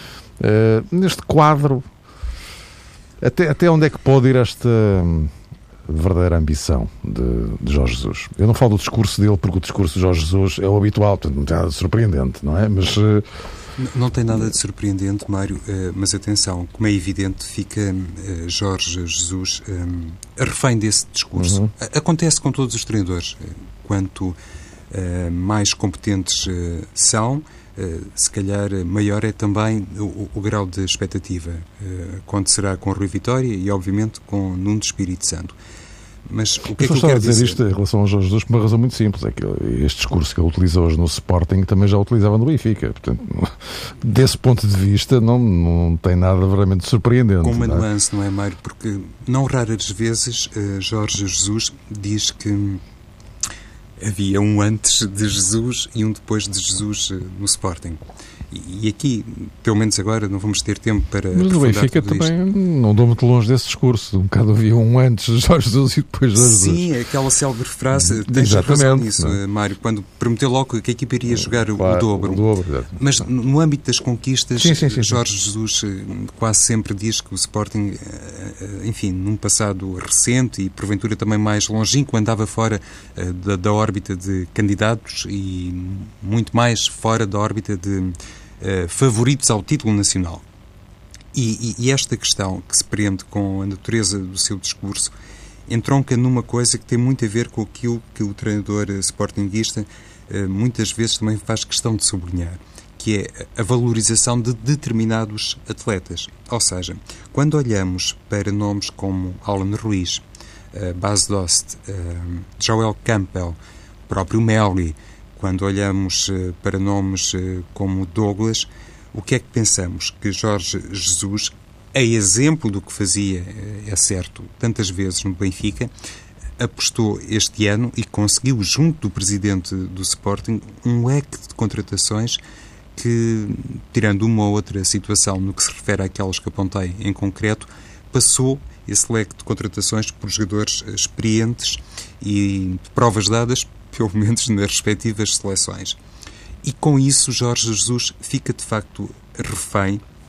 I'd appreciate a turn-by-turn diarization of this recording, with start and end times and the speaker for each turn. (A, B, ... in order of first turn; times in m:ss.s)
0:00.4-0:01.8 A
0:03.2-0:05.3 A
0:05.9-0:13.2 A
0:13.8-0:24.4 B
0:21.4-0:21.7 A
0:24.9-0:35.5 B
0:36.3-0:37.6 B
0:36.8-0:47.8 A
0:47.4-0:52.8 B
0:54.0-1:02.3 B
1:01.3-1:06.8 A
1:06.4-1:12.4 B
1:08.0-1:09.4 A
1:11.4-1:13.2 A
1:12.9-1:30.4 B
1:14.6-1:15.2 A
1:31.3-1:35.1 B
1:35.7-1:50.2 B
1:50.7-1:53.6 B
1:54.1-2:05.9 B
2:06.6-2:12.4 B
2:13.0-2:26.0 B
2:26.6-2:30.0 B